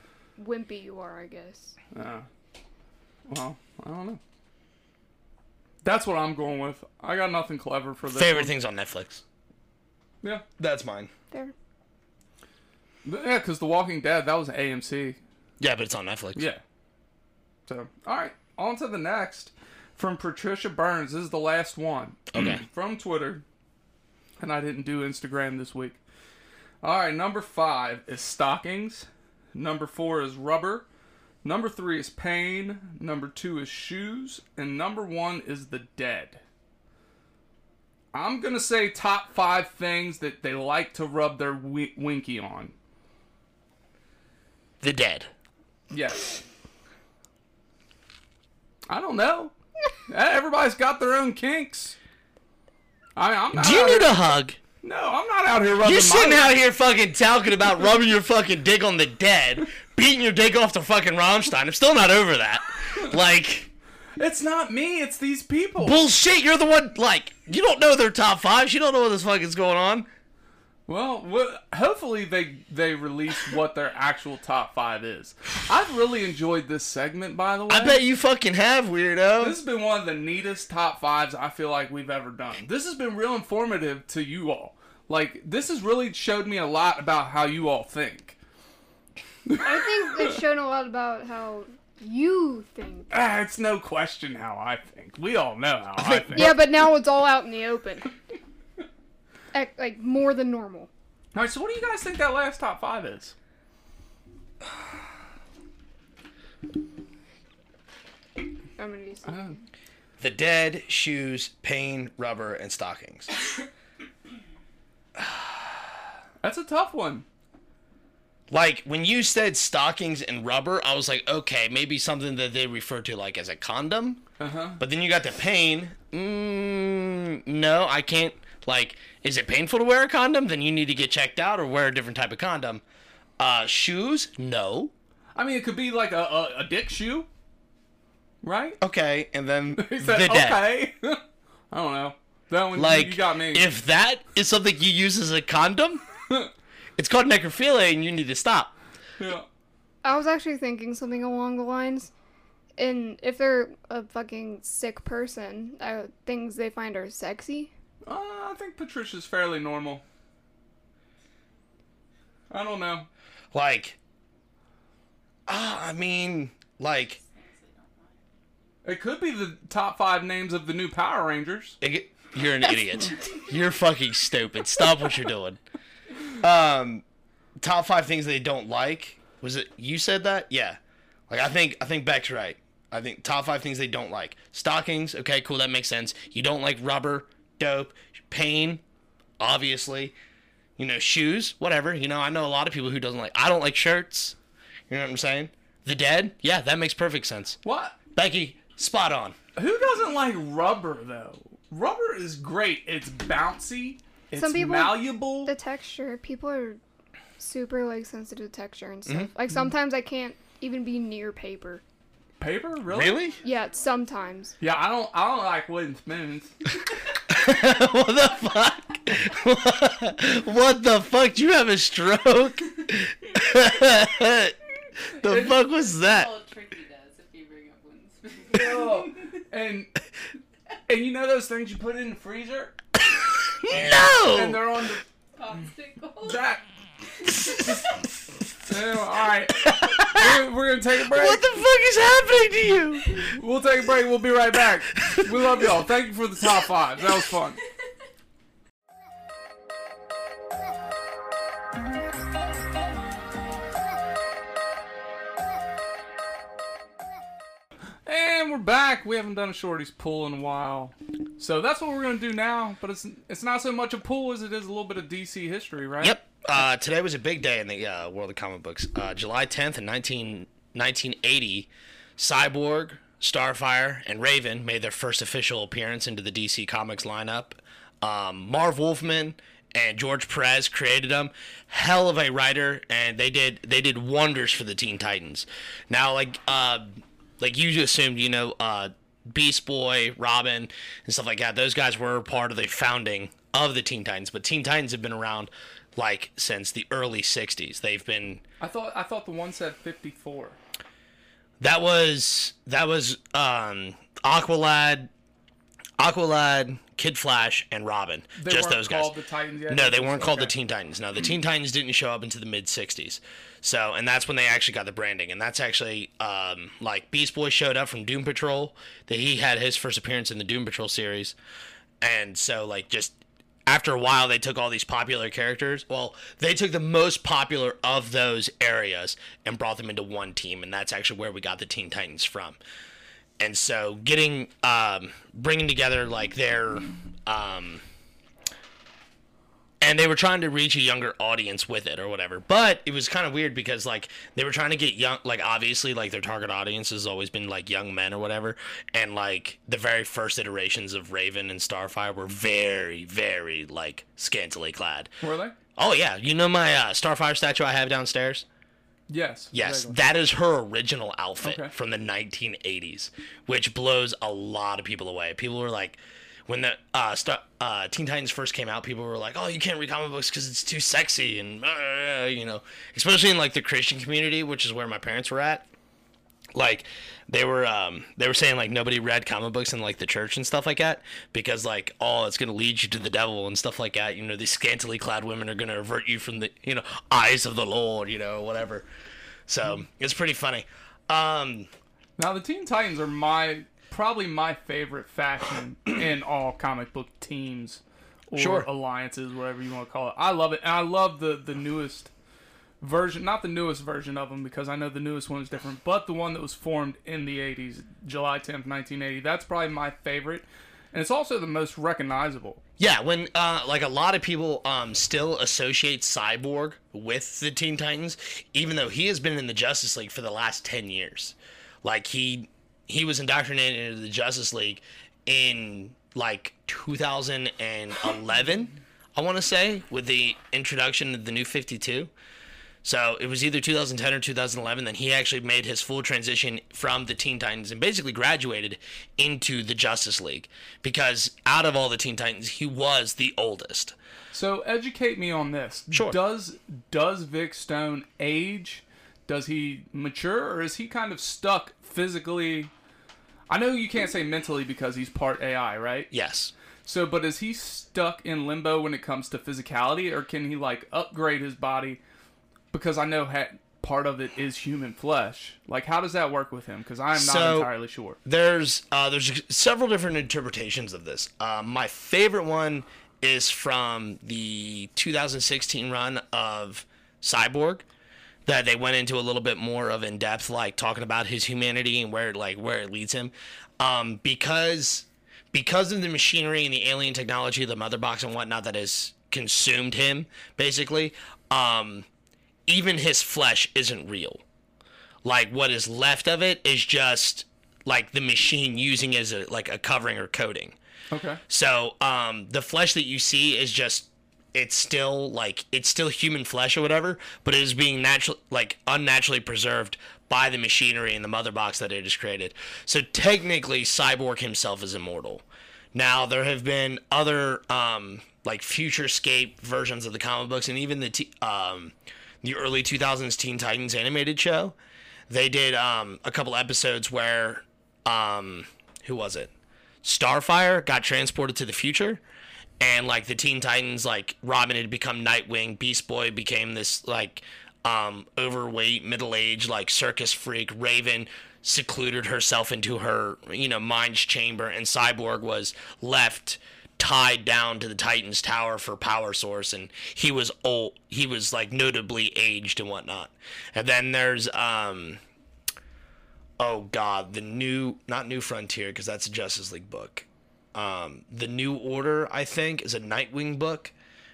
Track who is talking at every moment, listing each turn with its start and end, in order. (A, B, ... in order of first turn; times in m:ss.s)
0:00.4-0:01.8 A
0:01.9-0:02.3 B
0:03.3-0:04.2 B
0:05.8-0:08.5 B
0:08.1-0:09.2 C
0:10.6-0:11.1 C
0:13.0-0:15.2 B
0:15.6-0:16.4 C
0:16.4-0:16.6 B
0:17.7-0:23.4 B
0:22.3-0:22.6 C
0:24.4-0:26.0 B
0:26.8-0:30.9 B
0:31.4-0:36.4 B
0:38.1-0:42.7 B
0:44.8-0:45.3 C
0:45.9-0:46.4 B
0:48.9-0:49.5 B
0:50.1-0:52.0 B
0:53.2-0:54.2 B
0:53.6-0:54.6 C
0:54.8-0:56.5 B
0:55.8-1:03.7 C
1:04.2-1:06.0 B
1:05.8-1:10.1 C
1:10.9-1:18.0 B
1:17.7-1:19.6 C
1:19.4-1:28.4 B
1:29.5-1:29.7 B
1:29.6-1:33.1 A
1:33.1-1:36.6 B
1:36.0-1:36.6 C
1:36.3-1:38.1 A
1:39.5-1:40.9 A
1:41.3-1:43.4 B
1:48.8-1:49.4 A
1:49.3-1:49.6 B
1:50.2-1:53.3 C
1:56.4-1:57.3 B
1:58.5-2:04.2 C
2:04.4-2:04.8 B
2:04.8-2:12.8 C
2:13.4-2:14.9 C
2:15.4-2:17.3 B
2:18.4-2:18.8 B
2:18.8-2:20.6 C
2:19.7-2:23.7 B
2:22.8-2:26.0 C
2:27.0-2:28.7 C
2:29.2-2:29.5 B
2:30.0-2:32.1 A
2:32.8-2:37.7 A
2:38.0-2:40.0 B
2:42.5-2:43.1 B
2:43.5-2:44.0 C
2:45.5-2:47.2 C
2:47.2-2:48.2 D
2:48.8-2:51.8 B
2:51.8-2:55.6 C
2:56.4-2:57.0 C
2:57.6-3:08.8 C
3:09.4-3:10.2 C
3:10.8-3:14.4 C
3:14.9-3:17.6 C
3:17.6-3:18.0 B
3:18.2-3:19.4 C
3:19.6-3:25.5 B
3:24.4-3:26.8 A
3:27.4-3:31.8 A
3:32.4-3:33.2 B
3:32.9-3:33.4 C
3:33.1-3:33.8 D
3:33.4-3:34.6 A
3:34.6-3:36.6 B
3:37.3-3:44.6 C
3:45.2-3:46.3 C
3:45.2-3:49.3 D
3:48.5-3:49.9 B
3:50.9-3:52.8 B
3:53.6-3:54.6 C
3:54.3-3:55.0 B
3:55.4-3:56.4 D
3:56.2-3:56.6 B
3:58.7-4:01.4 B
3:59.7-4:00.4 C
4:01.1-4:03.2 C
4:03.3-4:07.6 B
4:18.1-4:26.2 B
4:26.0-4:58.4 C
4:58.6-5:00.6 B
5:01.6-5:05.1 C
5:06.0-5:09.2 C
5:08.4-5:10.6 B
5:09.7-5:21.4 C
5:22.0-5:32.6 C
5:33.4-5:37.8 C
5:39.8-5:55.1 C
5:55.2-5:55.6 B
5:55.8-5:58.4 C
5:59.1-6:00.0 B
5:59.5-6:15.7 C
6:01.4-6:01.7 B
6:16.6-6:28.9 C
6:29.5-6:31.7 C
6:32.2-6:42.1 B
6:38.4-6:38.7 C
6:42.8-6:52.6 B
6:52.8-7:12.1 C
7:12.8-7:24.0 C
7:24.3-7:32.7 B
7:25.9-7:26.2 C
7:33.5-7:36.1 B
7:36.1-7:36.5 C
7:36.8-7:42.0 B
7:42.7-7:48.2 B
7:47.1-7:47.7 C
7:48.2-7:57.8 C
7:58.5-8:12.1 C
8:12.7-8:14.4 C
8:15.2-8:20.8 C
8:21.1-8:21.4 B
8:21.5-8:44.8 C
8:45.3-8:49.5 C
8:50.0-8:52.2 C
8:52.8-9:15.2 C
9:16.6-9:23.9 C